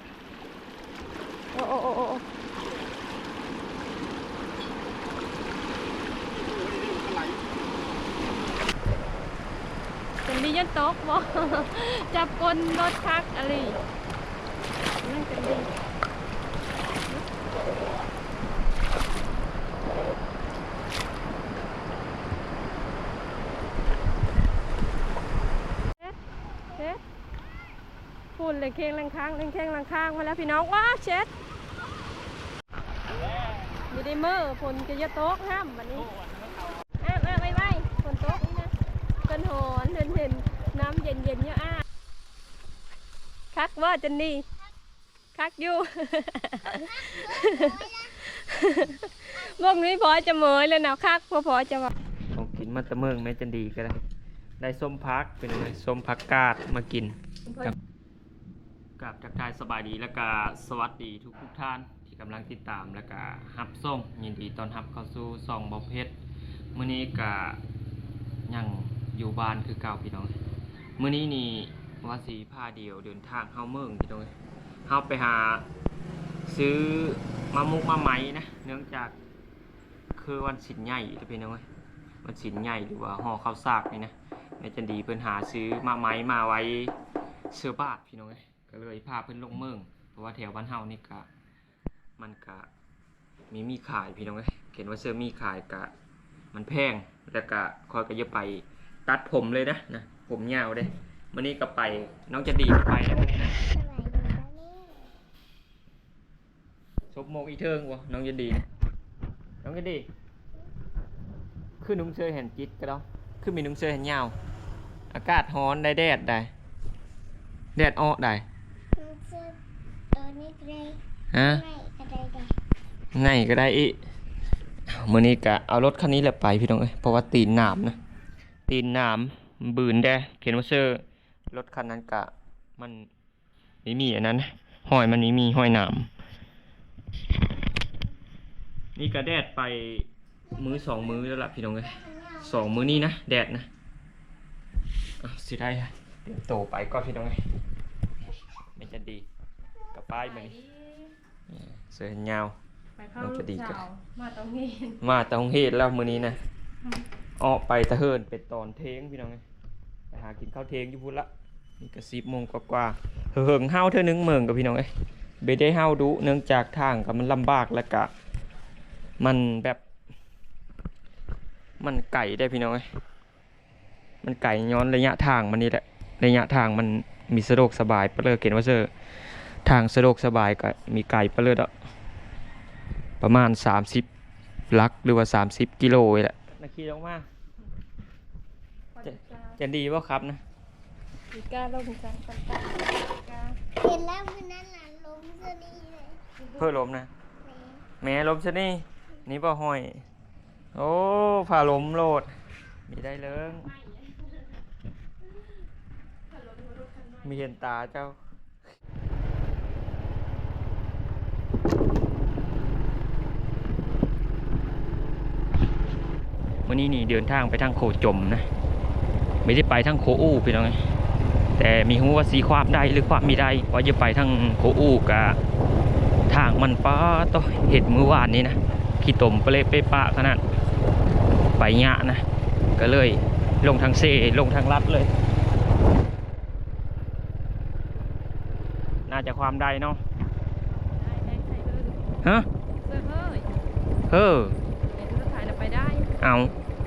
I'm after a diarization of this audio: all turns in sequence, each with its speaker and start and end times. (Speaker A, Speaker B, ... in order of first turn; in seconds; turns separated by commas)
Speaker A: 1.5-2.2, Speaker A: 10.2-13.8, Speaker A: 15.0-15.7, Speaker A: 26.8-27.0, Speaker A: 28.4-31.3, Speaker A: 33.9-36.1, Speaker A: 37.0-38.7, Speaker A: 39.3-41.9, Speaker A: 43.5-44.5, Speaker A: 45.4-51.9, Speaker B: 47.4-47.9, Speaker C: 52.3-54.0, Speaker C: 54.6-57.8, Speaker C: 59.0-66.2, Speaker C: 66.7-67.6, Speaker C: 68.5-70.4, Speaker C: 71.0-74.3, Speaker C: 74.9-75.7, Speaker C: 76.5-79.2, Speaker C: 80.2-81.7, Speaker C: 82.2-87.0, Speaker C: 87.5-91.3, Speaker C: 92.2-92.7, Speaker C: 93.5-95.9, Speaker C: 96.5-103.6, Speaker B: 103.2-105.1, Speaker C: 107.1-108.7, Speaker C: 109.6-110.1, Speaker C: 111.8-114.4, Speaker C: 115.1-116.5, Speaker C: 117.8-118.5, Speaker B: 119.0-119.6, Speaker B: 120.1-122.5, Speaker C: 121.3-121.6, Speaker C: 123.2-124.0, Speaker C: 124.9-128.0, Speaker C: 128.7-133.1, Speaker C: 133.8-136.1, Speaker C: 139.0-143.7, Speaker B: 140.5-142.9, Speaker C: 145.2-147.4, Speaker C: 148.8-149.3, Speaker C: 149.9-150.5, Speaker A: 150.2-151.1, Speaker C: 151.5-152.6, Speaker A: 153.0-155.0, Speaker C: 153.2-153.8, Speaker C: 155.0-156.4, Speaker C: 157.4-159.4, Speaker C: 160.1-164.9, Speaker C: 165.4-168.1, Speaker C: 169.2-169.8, Speaker C: 171.8-172.9, Speaker C: 174.2-178.9, Speaker C: 179.7-181.7, Speaker C: 183.2-184.1, Speaker C: 184.7-187.3, Speaker A: 188.9-189.6, Speaker C: 189.0-190.4, Speaker A: 191.3-193.6, Speaker B: 193.8-196.2, Speaker C: 196.6-197.1, Speaker B: 197.4-197.9, Speaker C: 198.0-200.1, Speaker C: 200.7-202.3, Speaker C: 202.9-203.7, Speaker A: 203.6-204.3, Speaker A: 206.3-207.3, Speaker C: 207.2-208.2, Speaker C: 216.7-218.5, Speaker C: 219.4-220.8, Speaker C: 221.6-225.4, Speaker C: 226.3-230.4, Speaker C: 231.6-232.2, Speaker C: 232.8-235.1, Speaker C: 239.1-240.0, Speaker A: 240.8-242.1, Speaker A: 242.8-243.5, Speaker C: 244.1-244.6, Speaker A: 244.9-246.1, Speaker C: 246.2-246.5